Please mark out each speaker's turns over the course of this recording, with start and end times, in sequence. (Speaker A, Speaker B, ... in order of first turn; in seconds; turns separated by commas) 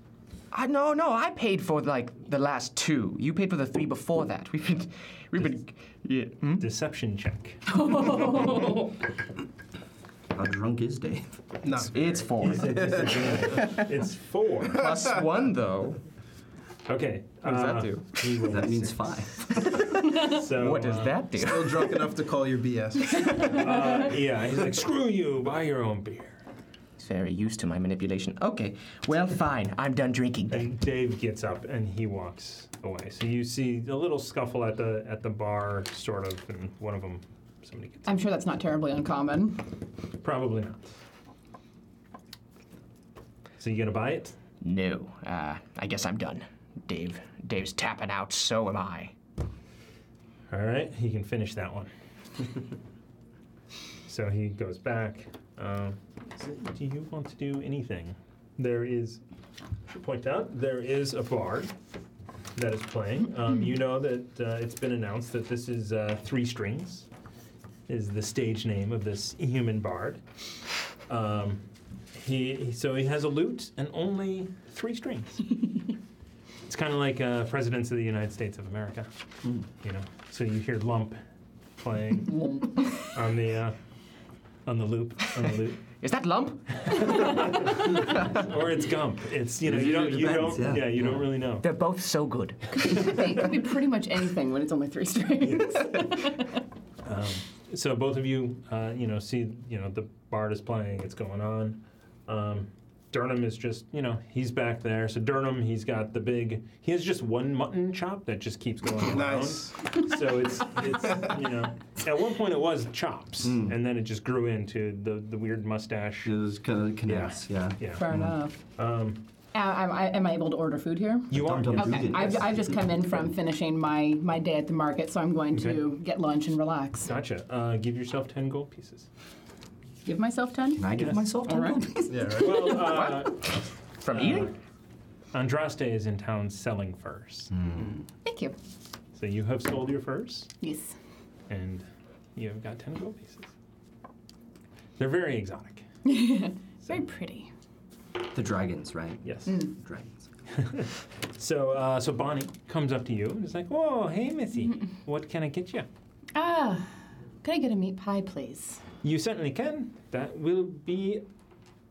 Speaker A: 0.5-6.6, Speaker B: 6.5-7.8, Speaker C: 7.8-8.8, Speaker D: 10.3-11.4, Speaker E: 11.6-13.6, Speaker A: 11.9-13.8, Speaker B: 12.4-14.8, Speaker A: 14.7-16.0, Speaker B: 16.9-19.1, Speaker A: 17.4-18.4, Speaker D: 18.5-19.8, Speaker A: 19.6-21.9, Speaker B: 20.1-21.2, Speaker E: 21.4-23.9, Speaker B: 23.4-26.4, Speaker A: 27.0-30.7, Speaker B: 30.5-38.2, Speaker C: 38.0-39.7, Speaker B: 40.2-40.9, Speaker B: 43.6-44.4, Speaker A: 44.6-49.1, Speaker B: 50.5-51.9, Speaker B: 54.1-59.2, Speaker B: 59.9-61.7, Speaker B: 62.5-67.1, Speaker B: 67.9-70.2, Speaker B: 71.1-71.6, Speaker B: 72.1-75.6, Speaker B: 76.7-79.1, Speaker B: 79.8-81.2, Speaker B: 81.8-83.8, Speaker C: 82.3-82.9, Speaker B: 84.7-85.8, Speaker A: 86.0-88.5, Speaker B: 86.8-91.7, Speaker D: 89.6-91.2, Speaker A: 91.6-93.4, Speaker C: 92.9-96.5, Speaker B: 95.4-95.9, Speaker B: 97.0-116.3, Speaker E: 109.0-110.0, Speaker E: 111.1-111.3, Speaker D: 113.4-113.8, Speaker D: 116.2-118.4, Speaker B: 117.0-118.0, Speaker C: 118.0-118.6, Speaker B: 118.8-119.2, Speaker C: 119.5-127.1, Speaker B: 121.3-122.4, Speaker D: 121.3-122.8, Speaker B: 125.5-125.8, Speaker B: 127.0-129.1, Speaker C: 130.0-131.9, Speaker D: 130.7-132.4, Speaker B: 131.0-131.2, Speaker E: 132.1-132.8, Speaker B: 132.4-133.4, Speaker A: 132.7-134.5, Speaker B: 134.1-134.5, Speaker B: 135.3-137.5, Speaker D: 137.5-138.0, Speaker C: 138.2-138.6, Speaker B: 139.1-140.5, Speaker C: 140.6-140.9, Speaker B: 141.5-143.5, Speaker B: 145.0-145.8, Speaker C: 146.0-147.5, Speaker D: 148.3-150.3, Speaker B: 149.2-149.6, Speaker B: 150.5-155.9, Speaker C: 156.3-158.8, Speaker B: 159.0-161.2